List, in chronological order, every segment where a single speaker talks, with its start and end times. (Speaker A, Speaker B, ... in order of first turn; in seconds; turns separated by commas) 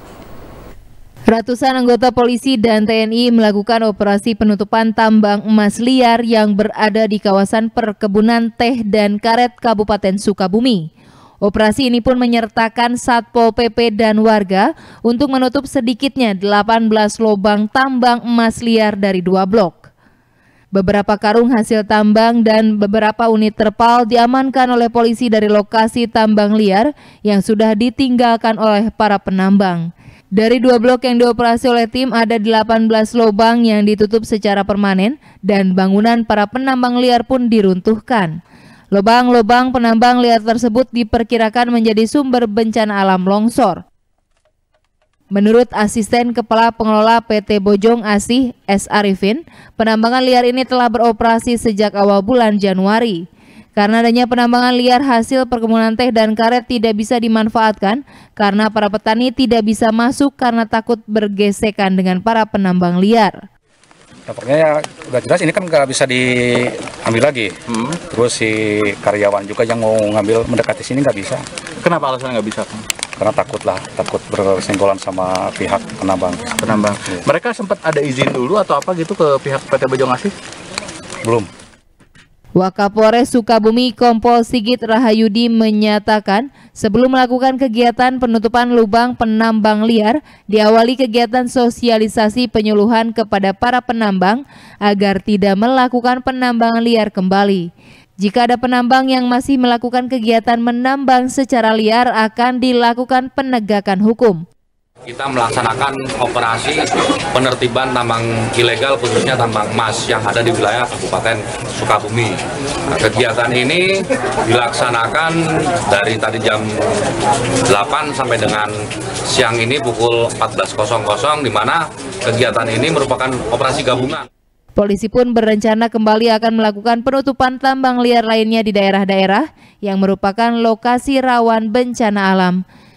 Speaker A: 1.3-10.8, Speaker A: 11.4-19.9, Speaker A: 20.7-38.4, Speaker A: 38.9-43.8, Speaker A: 45.3-53.2, Speaker A: 53.8-63.4, Speaker B: 64.3-67.5, Speaker C: 67.7-68.0, Speaker B: 68.1-71.4, Speaker C: 71.8-72.8, Speaker B: 73.2-76.5, Speaker C: 76.6-80.3, Speaker A: 82.5-97.7, Speaker A: 98.2-104.4, Speaker D: 105.1-112.4, Speaker D: 112.9-116.7, Speaker D: 117.7-118.7, Speaker D: 119.3-124.3, Speaker A: 124.8-132.6